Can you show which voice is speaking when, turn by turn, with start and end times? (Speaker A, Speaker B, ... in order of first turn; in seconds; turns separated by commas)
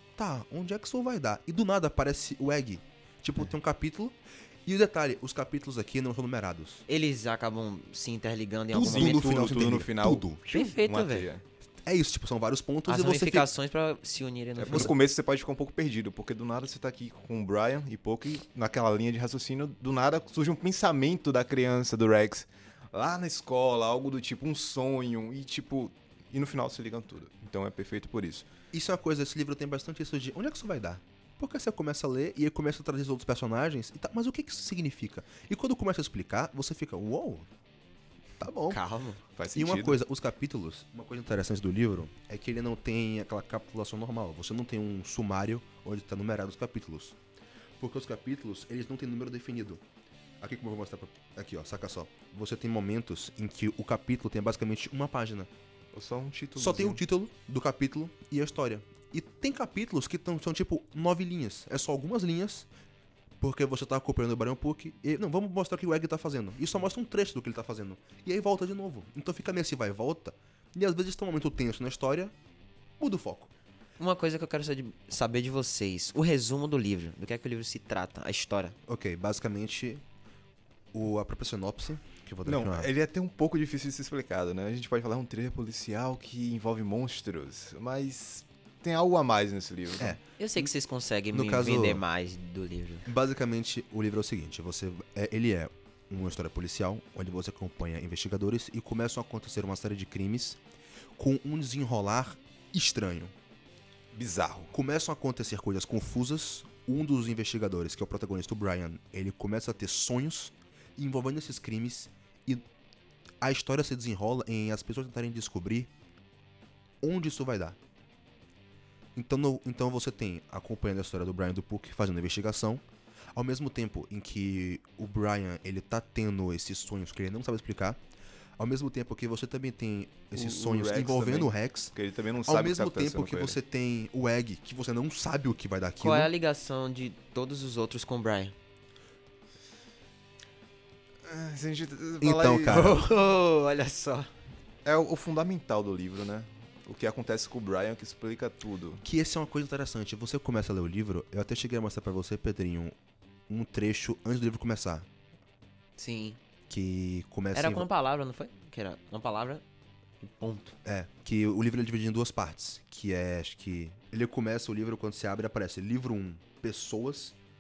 Speaker A: 0.2-6.8, Speaker B: 6.9-9.5, Speaker A: 8.7-10.4, Speaker C: 8.8-11.4, Speaker B: 10.5-11.3, Speaker A: 11.8-13.5, Speaker B: 12.9-14.9, Speaker C: 14.6-28.5, Speaker A: 14.7-14.9, Speaker A: 28.7-37.5, Speaker A: 38.4-38.8, Speaker B: 38.7-39.2, Speaker C: 39.4-40.0, Speaker A: 39.5-47.2, Speaker A: 47.8-49.8, Speaker A: 50.4-55.5, Speaker C: 55.9-57.0, Speaker A: 56.6-62.7, Speaker A: 63.4-72.3, Speaker A: 73.0-73.5, Speaker B: 74.0-78.8, Speaker A: 78.9-80.0, Speaker A: 80.9-82.9, Speaker C: 82.5-90.2, Speaker A: 90.0-90.7, Speaker B: 90.4-93.1, Speaker A: 91.3-92.0, Speaker A: 93.1-100.6, Speaker A: 101.2-103.3, Speaker C: 104.1-104.7, Speaker A: 104.7-112.6, Speaker A: 113.4-115.9, Speaker A: 117.0-117.8, Speaker A: 119.2-122.8, Speaker A: 123.3-128.0, Speaker A: 128.6-131.9, Speaker C: 130.3-133.6, Speaker A: 132.5-136.3, Speaker B: 136.0-138.5, Speaker C: 141.2-142.9, Speaker A: 142.2-143.1, Speaker B: 142.7-144.3, Speaker C: 144.8-149.0, Speaker A: 149.0-152.9, Speaker A: 153.5-155.1, Speaker B: 156.0-156.4, Speaker A: 156.7-157.9, Speaker B: 157.5-159.6, Speaker B: 160.2-160.8, Speaker A: 160.8-167.4